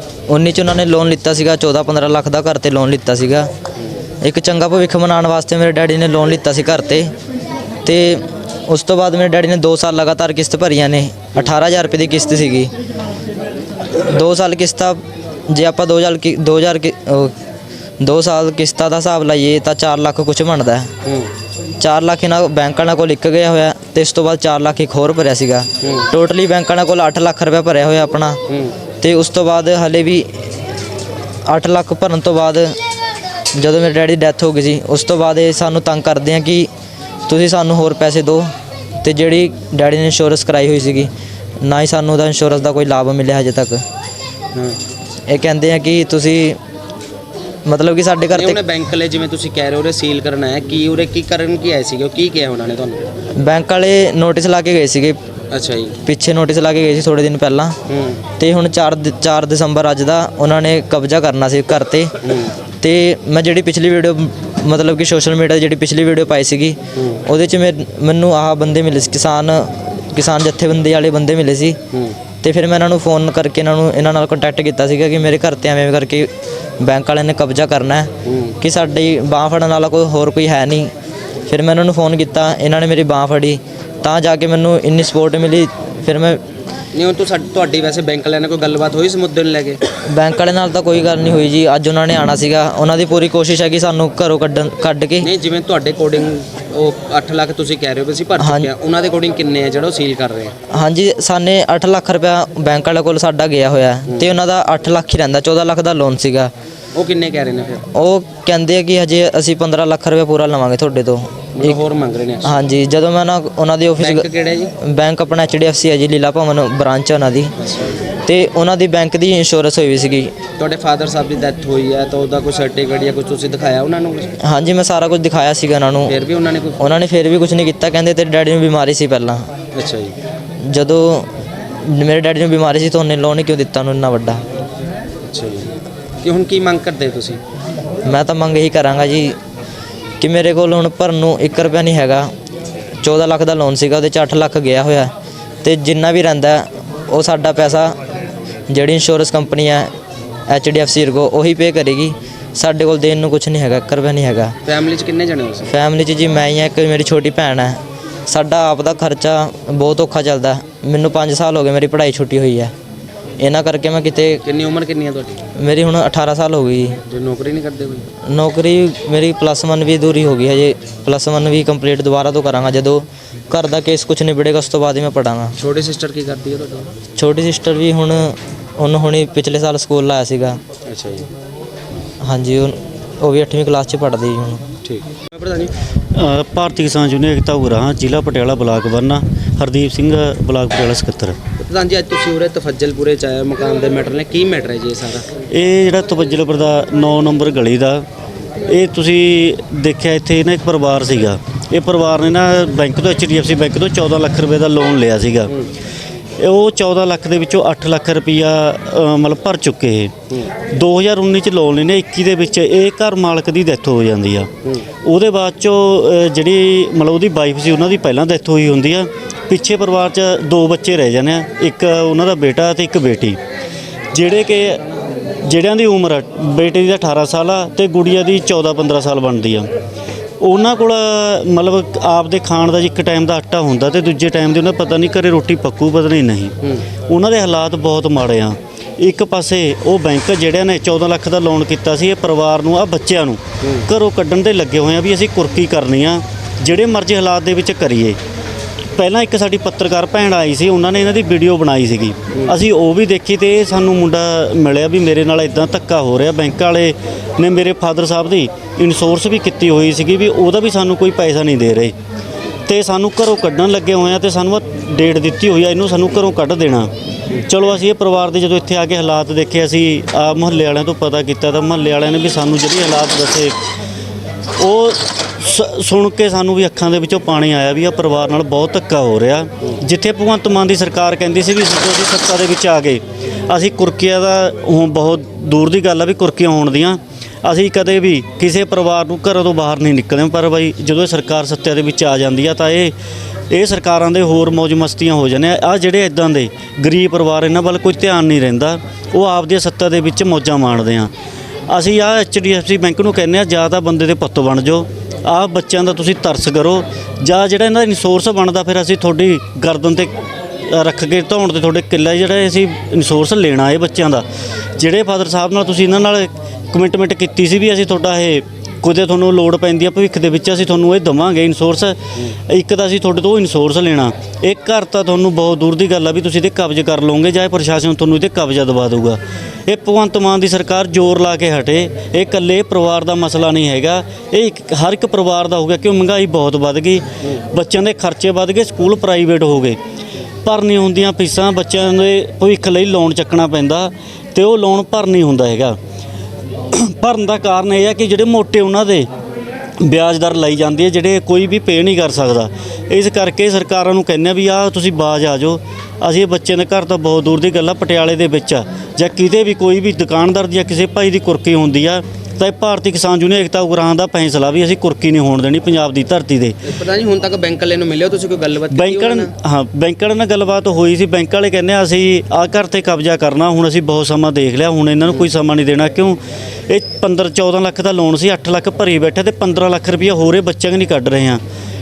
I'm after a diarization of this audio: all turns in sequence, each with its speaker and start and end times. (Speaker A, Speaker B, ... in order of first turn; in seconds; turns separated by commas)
Speaker A: 0.3-3.5, Speaker A: 4.2-7.1, Speaker A: 7.8-12.7, Speaker A: 14.0-17.3, Speaker A: 18.0-20.9, Speaker B: 21.0-21.3, Speaker A: 21.8-28.4, Speaker B: 25.8-26.1, Speaker B: 28.5-28.8, Speaker A: 29.0-30.5, Speaker A: 31.5-32.7, Speaker A: 33.6-36.7, Speaker A: 37.3-41.1, Speaker A: 41.6-43.8, Speaker A: 45.3-46.6, Speaker A: 47.7-48.5, Speaker B: 48.3-53.0, Speaker A: 53.4-55.1, Speaker B: 55.5-56.0, Speaker A: 56.0-57.7, Speaker B: 57.9-58.2, Speaker A: 58.4-62.1, Speaker B: 62.2-62.5, Speaker A: 62.8-71.8, Speaker B: 67.0-67.2, Speaker B: 71.9-72.2, Speaker A: 72.4-76.3, Speaker A: 76.8-78.1, Speaker B: 78.2-78.6, Speaker A: 78.6-80.9, Speaker A: 81.5-86.4, Speaker B: 86.9-89.8, Speaker A: 90.1-95.2, Speaker B: 95.2-100.5, Speaker A: 98.4-98.7, Speaker A: 100.8-106.5, Speaker B: 106.9-107.8, Speaker A: 108.0-111.7, Speaker B: 111.5-112.5, Speaker A: 112.4-114.2, Speaker B: 114.0-114.7, Speaker A: 114.9-117.5, Speaker B: 117.6-118.0, Speaker A: 118.3-120.3, Speaker B: 120.6-124.3, Speaker A: 124.5-126.0, Speaker B: 126.0-126.8, Speaker A: 126.8-129.4, Speaker B: 129.7-130.2, Speaker A: 130.7-131.3, Speaker A: 131.8-134.4, Speaker B: 135.2-137.4, Speaker A: 138.1-139.3, Speaker A: 140.2-142.3, Speaker A: 143.0-145.1, Speaker A: 145.6-147.9, Speaker A: 148.7-149.9, Speaker A: 150.5-154.5, Speaker B: 154.7-155.7, Speaker A: 155.7-162.7, Speaker A: 163.4-164.3, Speaker B: 164.4-165.4, Speaker A: 165.6-166.9, Speaker B: 167.1-168.1, Speaker A: 168.3-175.5, Speaker B: 175.6-176.9, Speaker A: 177.2-180.6, Speaker B: 180.8-181.3, Speaker A: 182.3-184.6, Speaker B: 184.8-185.7, Speaker C: 186.1-191.4, Speaker B: 191.6-195.3, Speaker C: 195.5-198.1, Speaker C: 198.7-205.5, Speaker C: 206.4-210.2, Speaker C: 210.7-214.5, Speaker C: 215.0-223.4, Speaker C: 224.1-224.8, Speaker C: 225.4-229.7, Speaker C: 230.4-248.2, Speaker C: 248.9-261.9, Speaker C: 262.7-266.9, Speaker C: 267.4-273.6, Speaker C: 274.6-292.9, Speaker C: 293.5-301.1, Speaker C: 301.7-310.1, Speaker C: 310.6-314.2, Speaker C: 314.8-339.8, Speaker C: 340.4-345.8, Speaker C: 346.7-349.1, Speaker C: 349.8-366.6, Speaker B: 366.6-369.3, Speaker C: 368.7-381.4